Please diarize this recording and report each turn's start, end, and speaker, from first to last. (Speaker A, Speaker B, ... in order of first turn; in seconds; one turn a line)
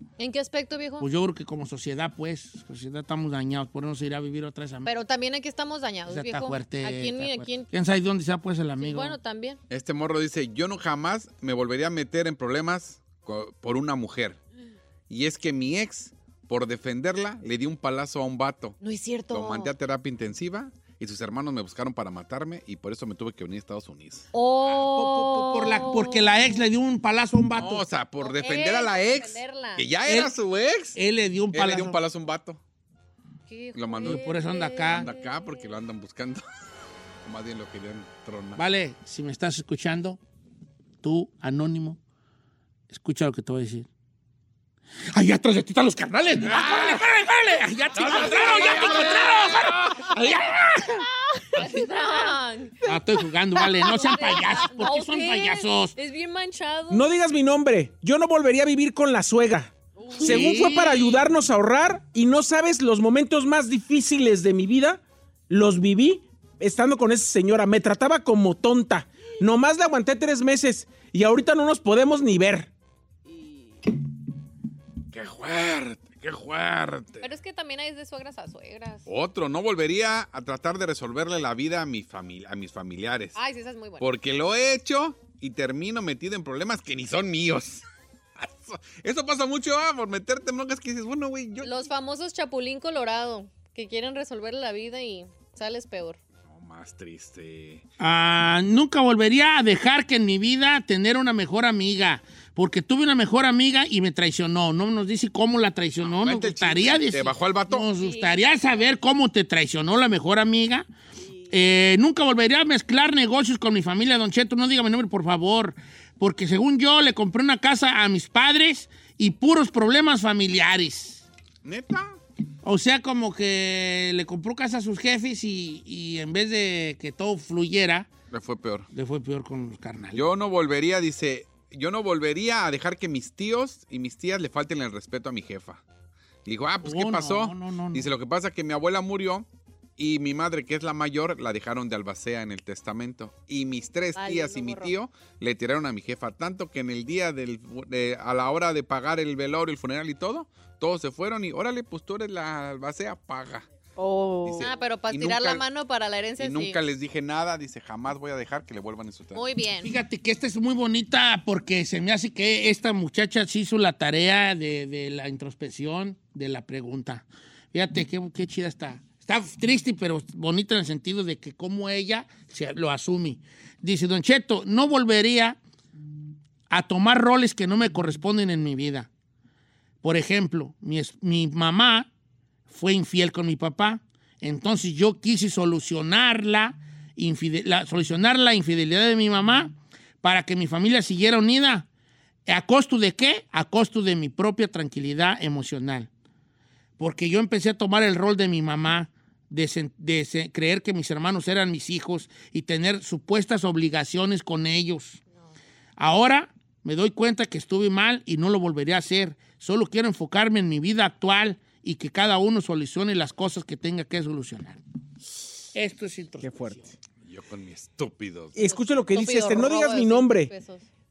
Speaker A: 0.2-1.1
Speaker B: 1.0-4.9
Speaker A: 4.8-7.7
Speaker B: 6.1-9.2
Speaker A: 8.8-9.6
Speaker C: 9.7-14.4
Speaker C: 15.1-18.8
Speaker A: 18.8-19.7
Speaker C: 19.3-24.3
Speaker A: 24.3-26.4
Speaker B: 24.9-27.9
Speaker C: 27.5-31.0
Speaker A: 28.2-29.9
Speaker B: 30.1-30.3
Speaker B: 30.9-32.0
Speaker C: 31.5-32.6
Speaker A: 33.5-35.7
Speaker C: 33.7-34.2
Speaker B: 34.0-35.1
Speaker C: 34.9-36.4
Speaker C: 37.2-38.6
Speaker B: 38.6-40.2
Speaker B: 41.0-42.0
Speaker B: 42.9-43.9
Speaker B: 45.1-52.2
Speaker C: 46.4-47.0
Speaker C: 47.9-50.1
Speaker A: 51.5-52.8
Speaker B: 52.8-55.9
Speaker D: 53.5-54.3
Speaker A: 53.8-57.1
Speaker E: 56.9-72.7
Speaker D: 60.0-60.3
Speaker B: 60.2-61.2
Speaker D: 73.2-73.8
Speaker C: 75.1-77.2
Speaker A: 77.2-79.0
Speaker C: 79.1-83.3
Speaker A: 83.3-84.0
Speaker C: 84.0-87.8
Speaker C: 88.4-91.7
Speaker A: 91.6-96.2
Speaker C: 96.5-97.8
Speaker B: 98.0-110.9
Speaker C: 106.0-107.9
Speaker A: 108.0-108.4
Speaker B: 111.5-121.2
Speaker C: 121.6-122.2
Speaker B: 122.6-128.1
Speaker C: 128.3-128.9
Speaker B: 128.9-130.2
Speaker C: 130.1-135.8
Speaker C: 136.4-139.4
Speaker B: 136.8-138.1
Speaker C: 140.0-153.7
Speaker A: 144.2-144.9
Speaker D: 154.0-154.7
Speaker C: 154.4-155.6
Speaker A: 154.6-156.8
Speaker C: 156.4-159.4
Speaker A: 159.3-159.9
Speaker B: 159.8-175.6
Speaker B: 176.7-179.1
Speaker B: 180.0-182.1
Speaker B: 182.7-191.9
Speaker B: 192.5-196.1
Speaker B: 197.0-205.2
Speaker B: 206.0-214.8
Speaker B: 215.7-216.9
Speaker E: 216.4-216.8
Speaker C: 217.2-218.6
Speaker E: 218.5-220.5
Speaker A: 218.7-220.8